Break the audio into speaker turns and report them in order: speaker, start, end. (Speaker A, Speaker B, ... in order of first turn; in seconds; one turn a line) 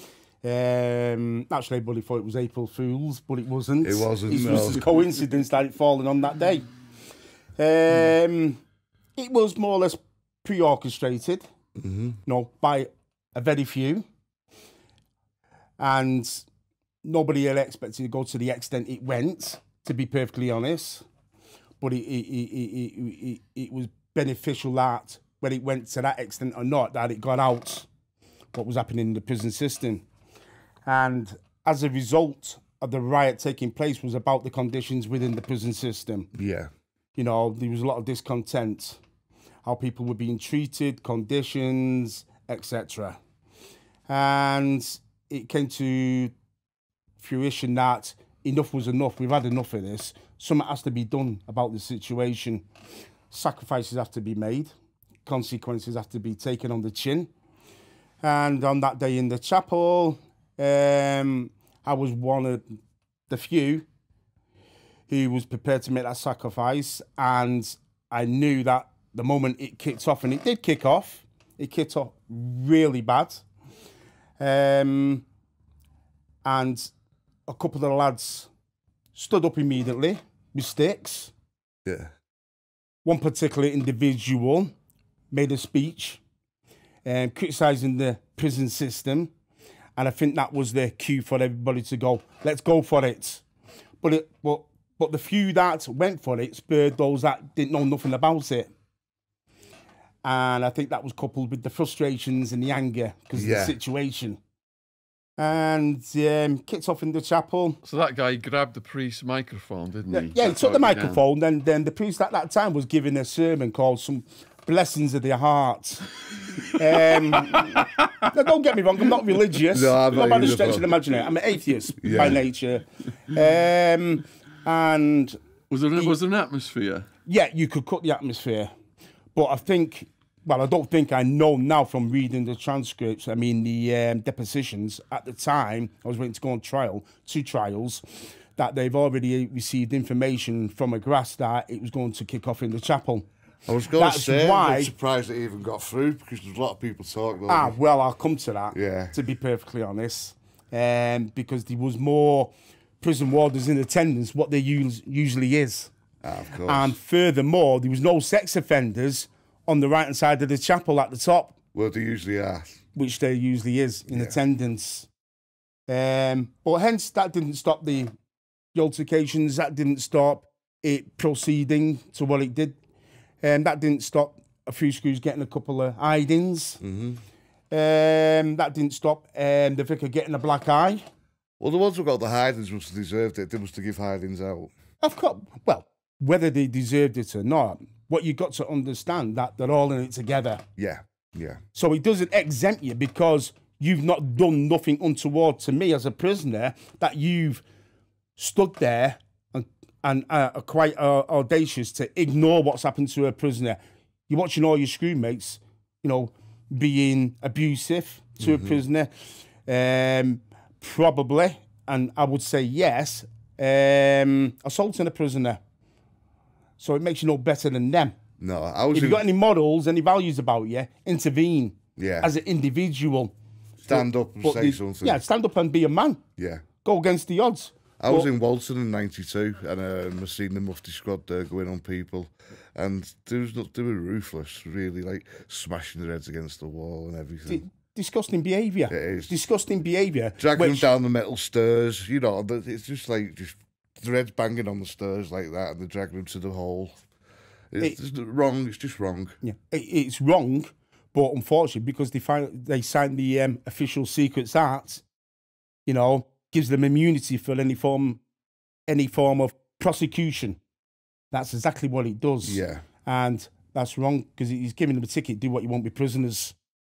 Speaker A: 0.4-6.7
Speaker B: 3.8-4.8
Speaker A: 7.6-8.6
Speaker A: 9.2-11.5
Speaker B: 11.8-12.2
Speaker A: 12.2-14.1
Speaker A: 15.8-16.5
Speaker A: 17.0-21.1
Speaker A: 21.8-27.9
Speaker A: 28.5-30.1
Speaker A: 30.9-36.3
Speaker B: 36.4-36.7
Speaker A: 37.2-39.0
Speaker A: 39.6-43.2
Speaker A: 44.1-46.3
Speaker A: 47.2-52.7
Speaker A: 53.3-54.7
Speaker A: 55.2-57.3
Speaker A: 58.2-62.6
Speaker A: 63.3-63.9
Speaker A: 65.1-73.5
Speaker A: 74.4-75.3
Speaker A: 76.4-76.9
Speaker A: 77.5-78.5
Speaker A: 79.1-81.3
Speaker B: 81.9-82.1
Speaker A: 83.0-84.7
Speaker A: 85.3-86.2
Speaker A: 87.0-89.3
Speaker A: 90.0-93.4
Speaker A: 94.0-98.7
Speaker A: 100.2-104.4
Speaker B: 103.3-103.8
Speaker A: 105.4-107.8
Speaker C: 107.8-111.2
Speaker A: 110.1-116.1
Speaker A: 116.7-125.4
Speaker C: 117.4-117.7
Speaker B: 119.7-120.9
Speaker B: 122.0-122.4
Speaker C: 125.7-127.1
Speaker A: 127.3-128.7
Speaker A: 129.3-143.3
Speaker B: 143.7-147.8
Speaker A: 143.9-144.9
Speaker A: 147.5-155.9
Speaker B: 148.7-149.2
Speaker B: 156.2-157.0
Speaker A: 156.7-161.6
Speaker B: 161.7-162.7
Speaker A: 162.9-165.1
Speaker B: 164.1-164.4
Speaker A: 165.9-168.1
Speaker A: 168.7-172.8
Speaker A: 173.4-176.8
Speaker B: 176.8-177.2
Speaker A: 177.7-181.0
Speaker B: 181.6-184.7
Speaker A: 185.0-190.6
Speaker B: 190.8-191.6
Speaker A: 191.7-197.6
Speaker A: 198.4-209.1
Speaker B: 208.4-208.8
Speaker A: 209.7-215.6
Speaker A: 216.8-218.2
Speaker B: 218.4-219.2
Speaker A: 218.9-223.3
Speaker B: 222.0-222.3
Speaker B: 223.8-225.2
Speaker A: 223.9-226.2
Speaker B: 226.4-226.6
Speaker A: 226.8-228.3
Speaker B: 228.0-237.6
Speaker A: 237.5-240.9
Speaker B: 238.9-239.3
Speaker B: 240.4-246.9
Speaker B: 247.7-249.4
Speaker A: 249.4-255.1
Speaker A: 255.9-258.2
Speaker A: 258.9-260.6
Speaker A: 261.3-266.6
Speaker B: 262.4-262.8